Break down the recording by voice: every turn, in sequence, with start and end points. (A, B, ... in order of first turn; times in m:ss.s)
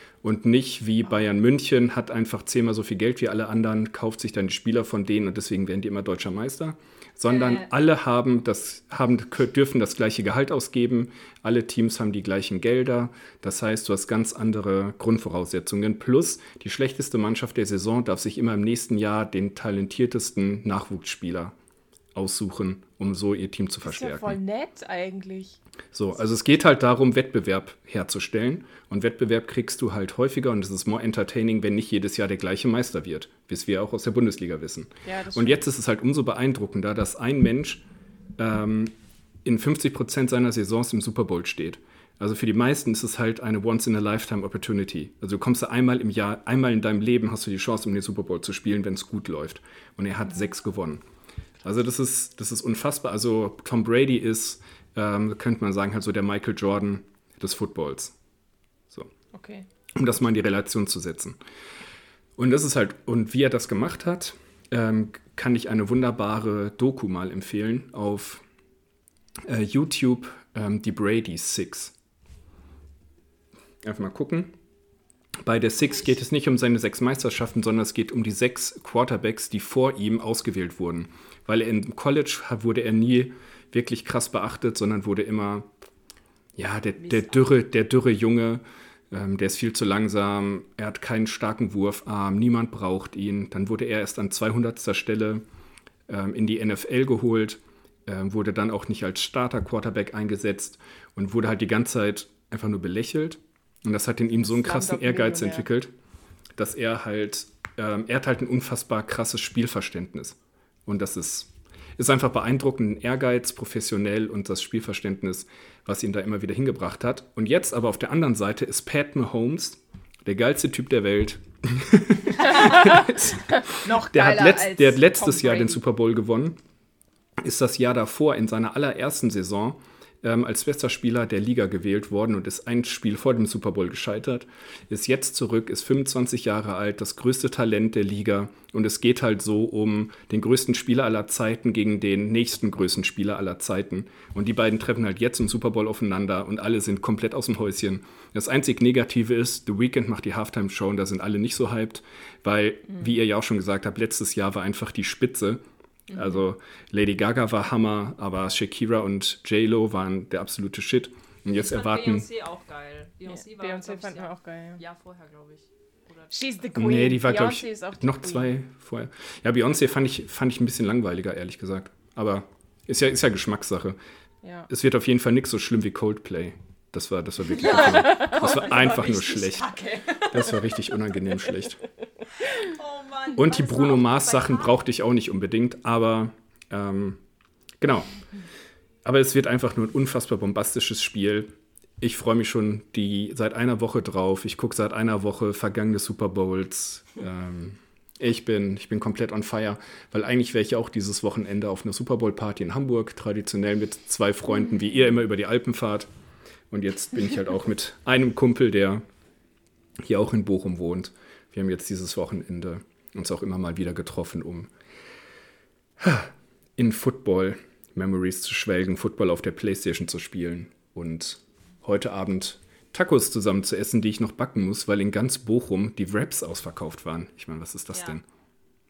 0:00.2-0:21.5 A
0:07.3-0:07.7 B
0:22.1-0:24.4 A
0:23.8-0:25.6 C
0:25.9-0:37.8 A
0:35.0-0:35.6 C
0:38.4-0:38.9 A
0:39.4-0:51.0 A
0:51.6-0:58.1 A
0:59.3-0:59.6 C
0:59.9-1:01.4 A
1:02.4-1:08.4 A
1:09.4-1:11.9 A
1:13.8-1:14.6 A
1:15.4-1:25.7 A
1:26.6-1:35.4 A
1:27.0-1:27.5 B
1:36.1-1:45.9 A
1:44.5-1:45.7 C
1:46.5-2:06.6 A
2:02.5-2:05.8 C
2:07.4-2:42.2 A
2:36.1-2:36.4 C
2:41.5-2:46.4 B
2:43.3-2:44.8 C
2:46.3-2:48.5 C
2:46.7-2:54.0 A
2:54.4-2:54.7 C
2:54.7-2:59.7 A
2:57.5-3:00.8 B
3:00.3-3:01.8 A
3:02.4-3:04.8 B
3:03.4-3:07.2 A
3:07.8-3:08.1 A
3:09.0-3:26.1 A
3:26.7-3:29.0 A
3:30.0-3:34.7 A
3:36.0-3:48.2 A
3:47.9-3:48.2 B